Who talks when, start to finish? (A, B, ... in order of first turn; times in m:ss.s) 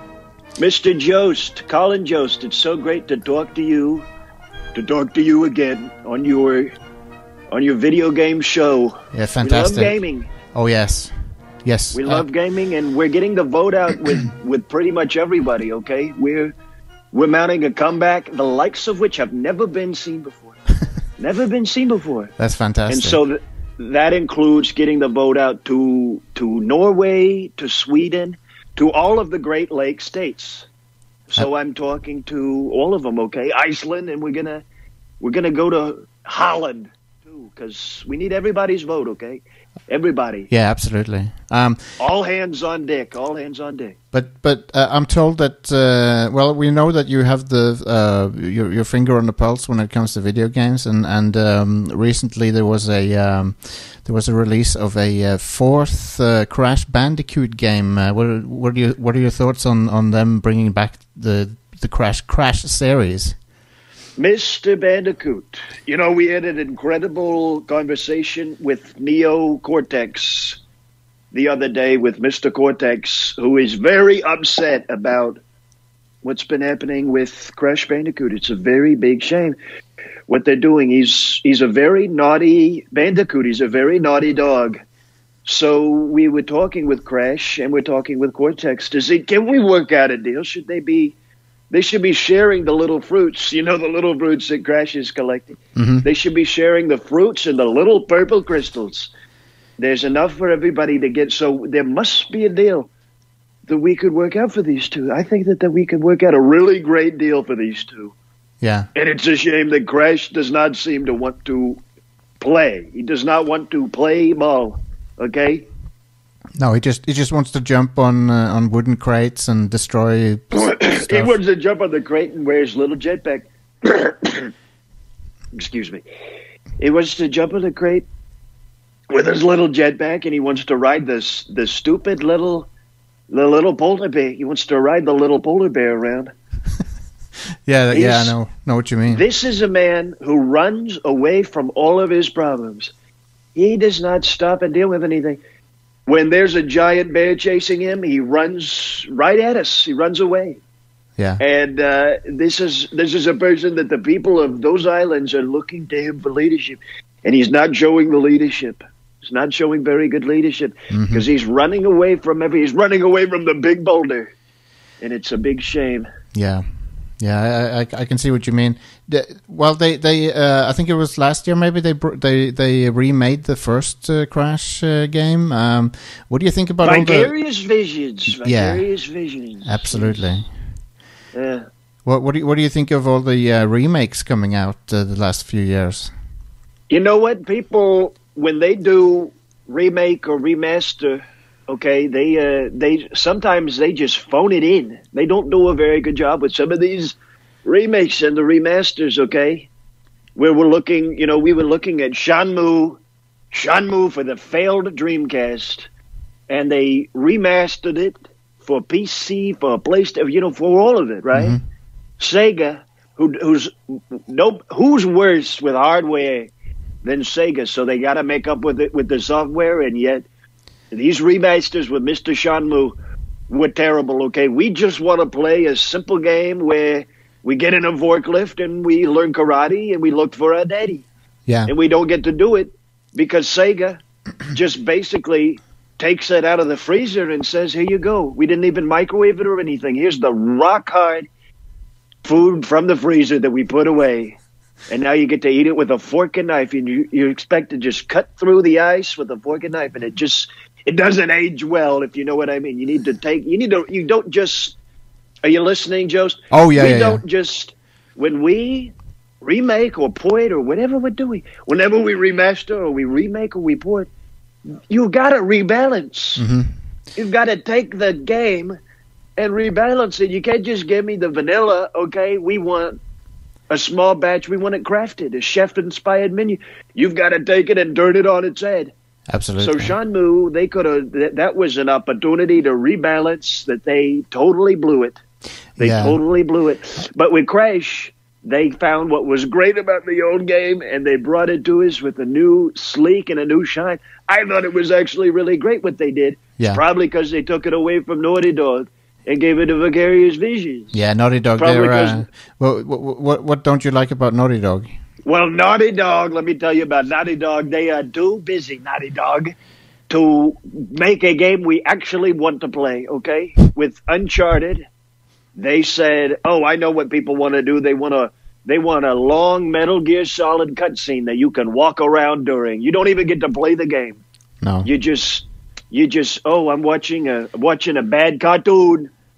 0:00.6-0:04.1 A
0:04.7-0:06.7 A
0:07.5-0:10.3 A
0:09.1-0:09.9 B
0:10.5-0:11.1 B
0:11.6-0:12.2 B
0:11.9-0:16.5 A
0:17.1-0:20.6 A
0:21.2-0:22.3 A
0:22.4-0:23.2 B
0:22.9-0:30.7 A
0:31.3-0:34.6 A
0:35.2-0:40.5 A
0:40.5-0:41.9 B
0:42.0-0:44.0 A
0:44.1-1:03.4 B
1:04.2-1:10.6 A
1:11.3-1:15.4 A
1:16.2-1:19.6 A
1:20.3-1:24.8 A
1:25.4-1:31.1 A
1:31.7-1:39.1 A
1:35.8-1:36.0 B
1:39.8-1:42.9 A
1:43.7-1:48.1 A
1:48.6-1:48.9 B
1:48.9-1:51.8 A
1:52.4-1:55.6 A
1:56.6-2:01.3 B
2:00.5-2:04.5 A
2:05.5-2:06.0 A
2:06.8-2:08.0 A
2:09.1-2:12.7 A
2:13.3-2:16.3 A
2:17.6-2:19.2 B
2:17.9-2:18.3 A
2:19.1-2:22.9 A
2:23.5-2:25.4 A
2:26.1-2:30.6 A
2:31.4-2:44.3 A
2:40.9-2:41.2 B
2:45.0-2:46.1 A
2:46.3-2:46.6 B
2:47.2-2:57.3 B
2:56.8-3:00.2 A
2:58.4-2:58.8 B
2:59.6-3:00.5 B
3:01.3-3:01.7 A
3:02.0-3:06.1 B
3:06.9-3:19.7 A
3:20.4-3:23.0 A
3:23.5-3:25.9 A
3:26.5-3:31.5 A
3:31.3-3:31.6 B
3:32.2-3:36.5 A
3:37.0-3:40.2 A
3:40.9-3:43.0 A
3:43.5-3:51.0 A
3:51.6-3:54.0 A
3:54.5-4:01.3 A
4:02.2-4:04.4 A
4:04.9-4:14.8 A
4:15.4-4:24.1 A
4:16.5-4:17.2 B
4:24.7-4:26.4 A
4:26.4-4:26.7 B
4:27.2-4:28.8 A
4:29.4-4:33.0 A
4:33.7-4:38.9 A
4:39.3-4:39.9 B
4:39.6-4:45.2 A
4:45.8-4:46.2 B
4:45.8-5:01.0 A
5:00.9-5:04.9 B
5:01.6-5:02.2 A
5:05.2-5:09.5 A
5:10.1-5:14.8 A
5:15.6-5:24.2 A
5:24.6-5:24.9 B
5:24.8-5:29.1 A